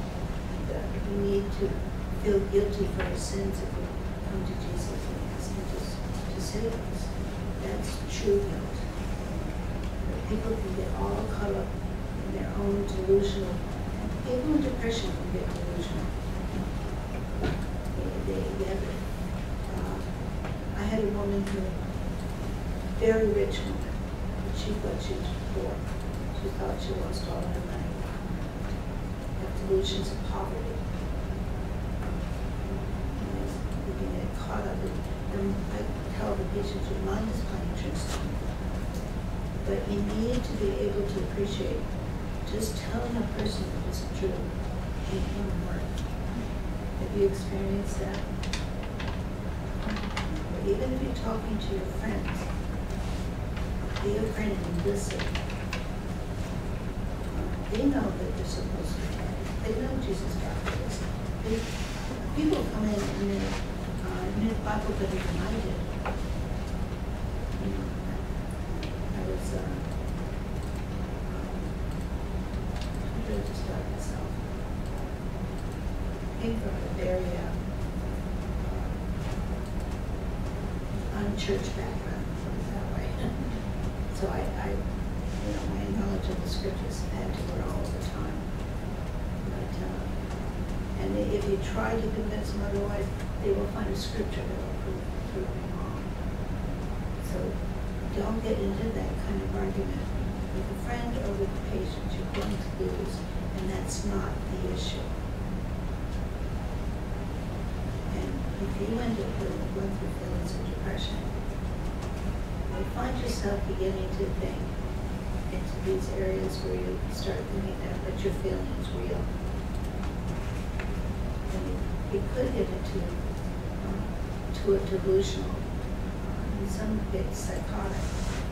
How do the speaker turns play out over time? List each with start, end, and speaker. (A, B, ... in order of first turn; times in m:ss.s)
0:00.5-0:08.9 A
0:10.0-0:16.2 A
0:17.9-0:19.0 A
0:19.6-0:20.2 A
0:20.7-0:21.8 A
0:22.9-0:28.1 A
0:29.4-0:30.8 A
0:32.0-0:38.4 A
0:39.6-0:41.9 A
0:42.4-0:45.9 A
0:47.0-0:48.2 A
0:50.3-0:52.5 A
0:54.0-0:55.4 A
0:57.3-1:05.9 A
1:07.6-1:08.2 A
1:09.0-1:09.9 A
1:11.2-1:11.8 A
1:13.0-1:14.4 A
1:16.3-1:17.6 A
1:18.6-1:19.0 A
1:21.1-1:23.4 A
1:24.1-1:24.8 A
1:25.3-1:28.5 A
1:29.4-1:30.2 A
1:30.9-1:36.1 A
1:37.2-1:45.1 A
1:48.1-1:51.4 A
1:52.7-1:54.7 A
1:55.5-1:59.3 A
2:01.5-2:03.2 A
2:03.8-2:05.7 A
2:06.2-2:08.2 A